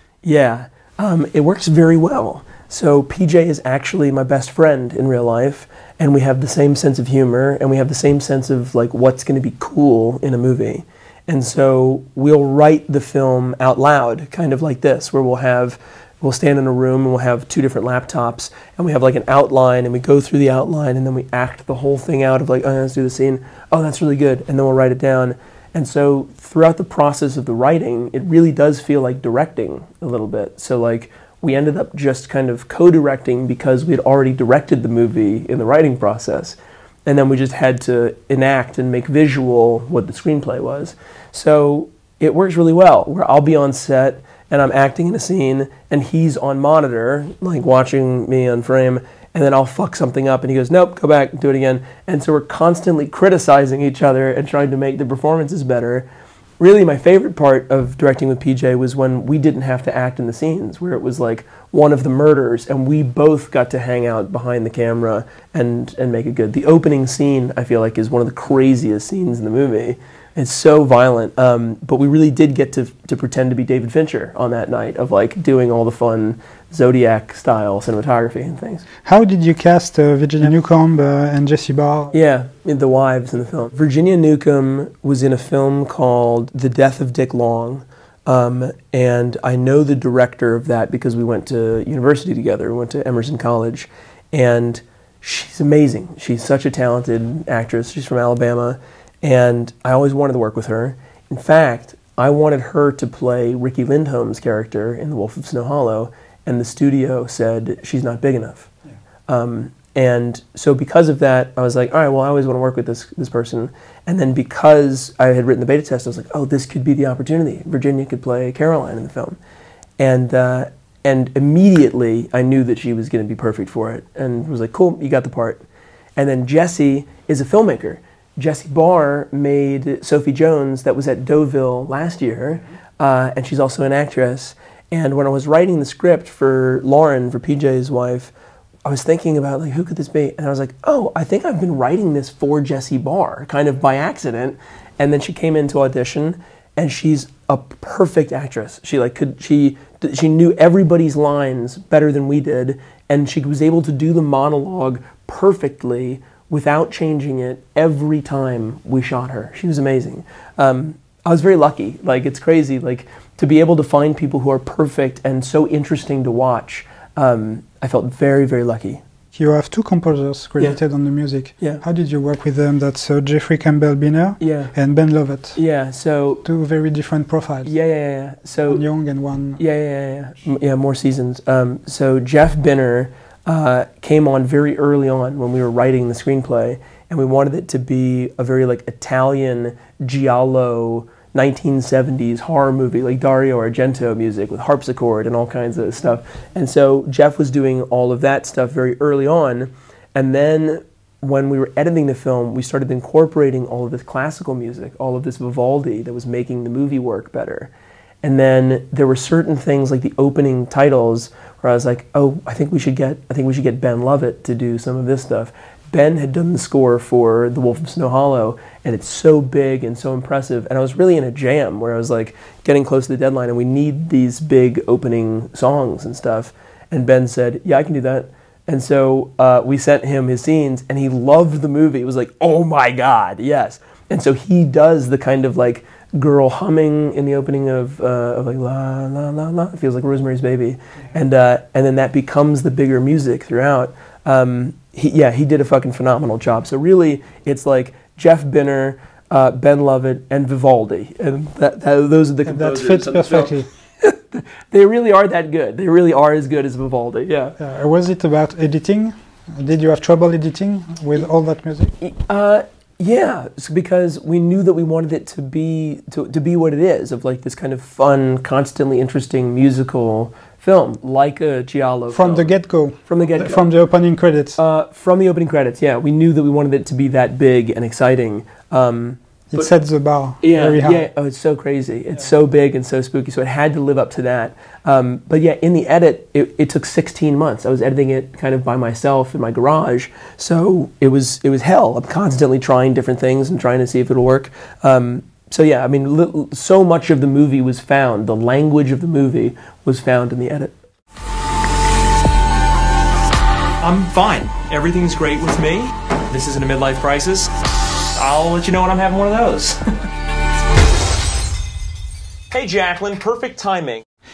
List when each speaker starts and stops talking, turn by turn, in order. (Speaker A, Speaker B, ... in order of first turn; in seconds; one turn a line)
Speaker A: 0.2-56.1
Speaker A: 56.6-78.8
Speaker B: 79.0-82.2
Speaker A: 82.1-108.7
Speaker A: 109.3-119.4
Speaker A: 120.0-125.6
Speaker A: 126.2-138.3
Speaker A: 138.8-169.0
Speaker B: 169.3-175.6
Speaker A: 174.4-174.7
Speaker A: 175.6-176.4
Speaker B: 176.4-177.7
Speaker A: 177.7-178.8
Speaker B: 178.7-179.6
Speaker A: 179.6-207.7
Speaker A: 208.2-257.6
Speaker B: 252.4-253.7
Speaker B: 257.6-261.9
Speaker A: 262.0-272.5
Speaker B: 272.1-274.6
Speaker A: 273.1-273.6
Speaker A: 274.6-279.7
Speaker B: 279.5-281.1
Speaker A: 280.4-300.8
Speaker C: 303.8-307.5
Speaker C: 308.1-309.8
Speaker C: 312.5-314.0